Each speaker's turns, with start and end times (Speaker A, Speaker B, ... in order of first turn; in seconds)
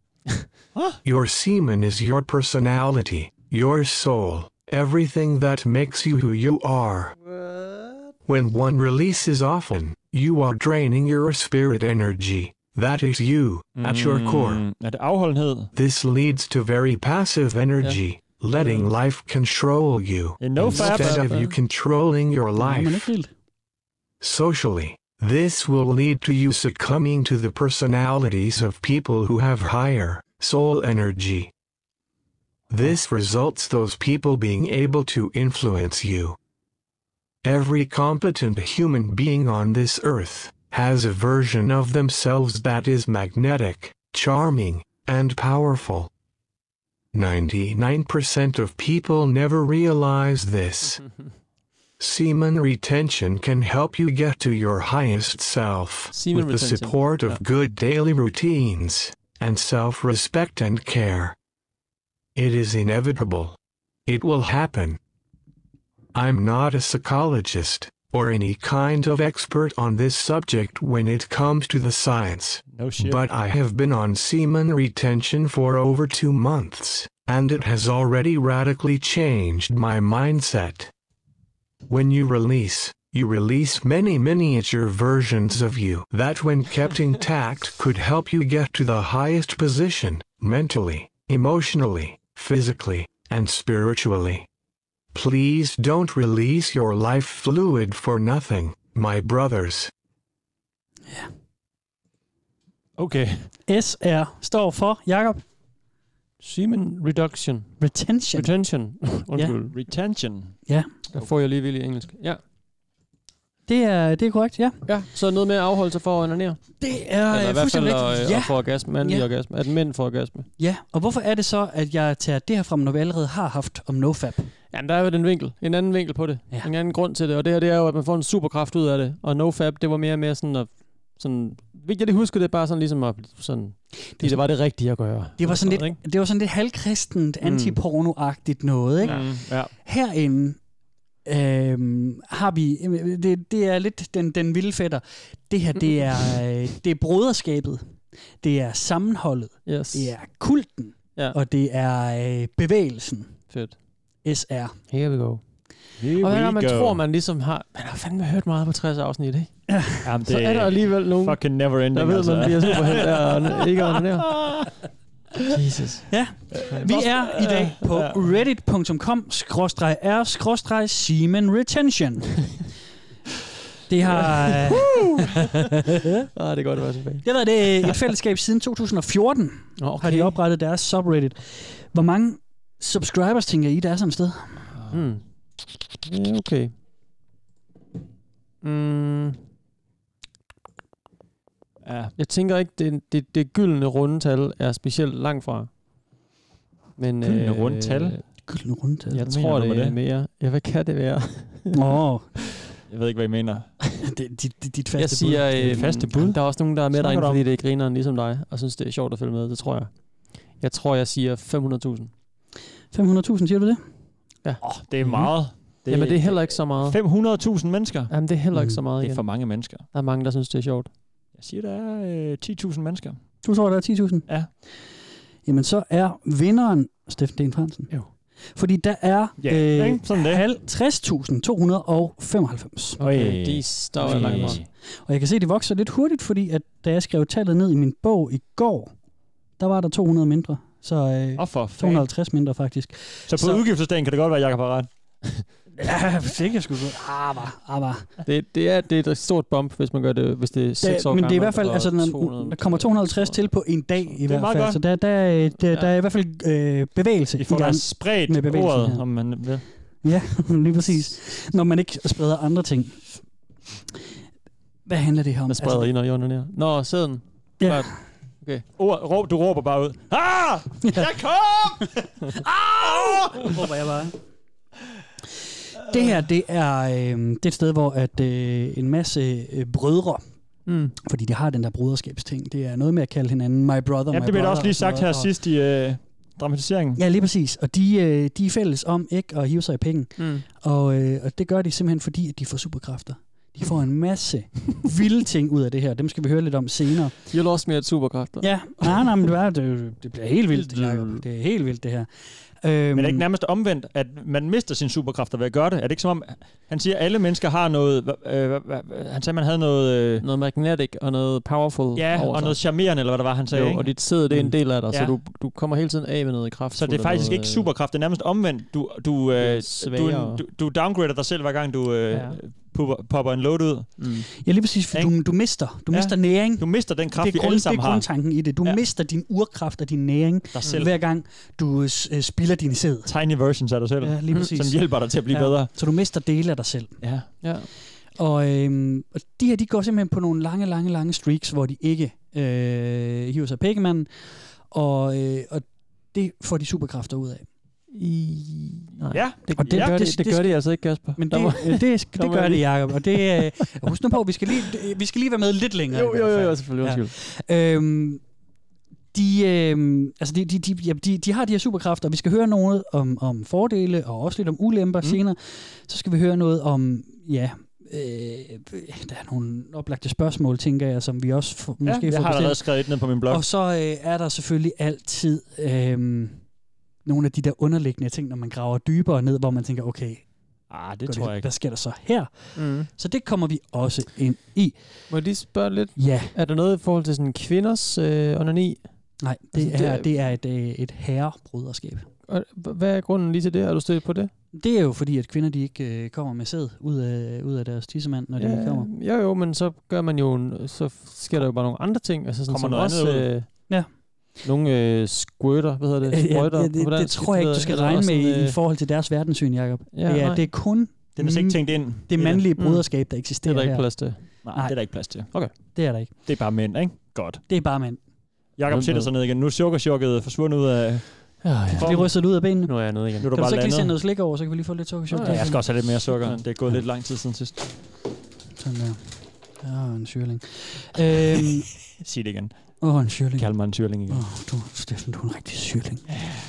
Speaker A: 0.7-1.0, 13.8-15.7, 20.4-21.4, 72.7-73.2, 103.0-103.5, 109.7-110.6, 139.0-139.7, 156.0-157.0, 160.1-164.7, 166.5-168.3, 184.7-185.1, 191.8-192.1, 197.2-198.2, 199.2-200.0, 202.9-203.7, 205.6-207.4, 214.6-218.2, 219.0-219.8, 221.4-223.2, 229.4-230.4, 233.0-234.7, 241.4-242.1, 243.3-244.9, 254.2-254.8, 257.4-259.7, 268.8-272.2, 272.8-273.6, 284.1-287.0, 302.9-310.2, 311.9-315.1, 316.7-324.1, 325.9-328.1, 330.5-330.9, 333.1-335.7, 337.0-337.3, 349.1-350.0, 371.8-373.4, 380.7-381.5, 402.5-403.3, 411.2-412.4, 414.4-415.4, 416.3-417.4, 418.6-422.1, 423.2-423.9, 425.2-427.7, 432.0-432.7, 433.4-434.2
Speaker B: 1.0-7.1, 8.3-14.6, 15.8-23.1, 24.2-31.5, 32.7-36.4, 37.5-46.1, 47.1-51.0, 52.0-61.4, 62.4-63.6, 64.1-65.0, 66.1-80.9, 81.9-94.5, 95.1-99.9
Speaker C: 7.3-8.0, 20.6-21.5, 51.0-51.3, 56.1-57.4, 106.4-109.8, 111.1-112.4, 114.9-116.6, 117.2-120.5, 124.7-136.0, 137.4-137.8, 145.8-146.2, 149.7-150.2, 153.5-153.8, 154.9-155.4, 156.2-159.5, 160.3-164.6, 165.5-166.1, 167.4-167.7, 174.5-174.8, 176.3-178.0, 179.8-180.4, 184.9-185.2, 186.1-186.7, 188.6-189.4, 192.2-195.7, 197.0-198.2, 199.1-202.0, 205.0-212.1, 214.4-217.0, 218.1-220.9, 233.0-234.6, 248.2-253.4, 255.7-255.9, 265.5-268.6, 280.7-280.9, 290.2-290.4, 297.3-299.1, 300.5-301.2, 310.2-312.6, 313.5-317.7, 319.4-320.4, 322.1-322.4, 324.0-324.3, 337.4-337.7, 347.9-353.9, 355.9-357.1, 382.6-382.9, 385.1-388.9, 389.5-390.1, 392.3-394.3, 398.4-403.8, 404.4-408.6, 409.9-410.5, 412.6-414.5, 418.7-419.1, 421.4-423.3, 425.1-426.7
Speaker D: 22.6-23.3, 103.7-105.4, 107.8-108.7, 109.3-109.8, 113.7-114.8, 116.8-119.3, 120.6-124.5, 134.2-134.9, 135.4-140.6, 141.2-153.4, 154.2-154.8, 159.7-160.1, 166.1-172.5, 173.9-175.3, 177.2-184.7, 198.5-199.2, 201.7-202.3, 204.0-205.9, 212.9-213.8, 218.5-218.8, 223.4-224.8, 225.4-227.9, 228.6-233.0, 234.1-238.9, 239.6-243.6, 245.8-248.1, 250.8-259.1, 260.0-263.1, 264.9-265.9, 267.6-267.9, 272.4-274.2, 275.9-280.2, 281.0-285.3, 286.9-297.2, 298.4-303.2, 324.4-333.1, 334.0-337.0, 338.1-347.5, 349.5-358.2, 359.1-376.4, 377.0-380.3, 381.1-385.1, 385.9-386.3, 389.2-392.1, 394.5-398.9, 406.1-416.1, 417.5-418.0, 421.7-425.9, 428.6-431.7, 432.8-433.5, 434.1-436.1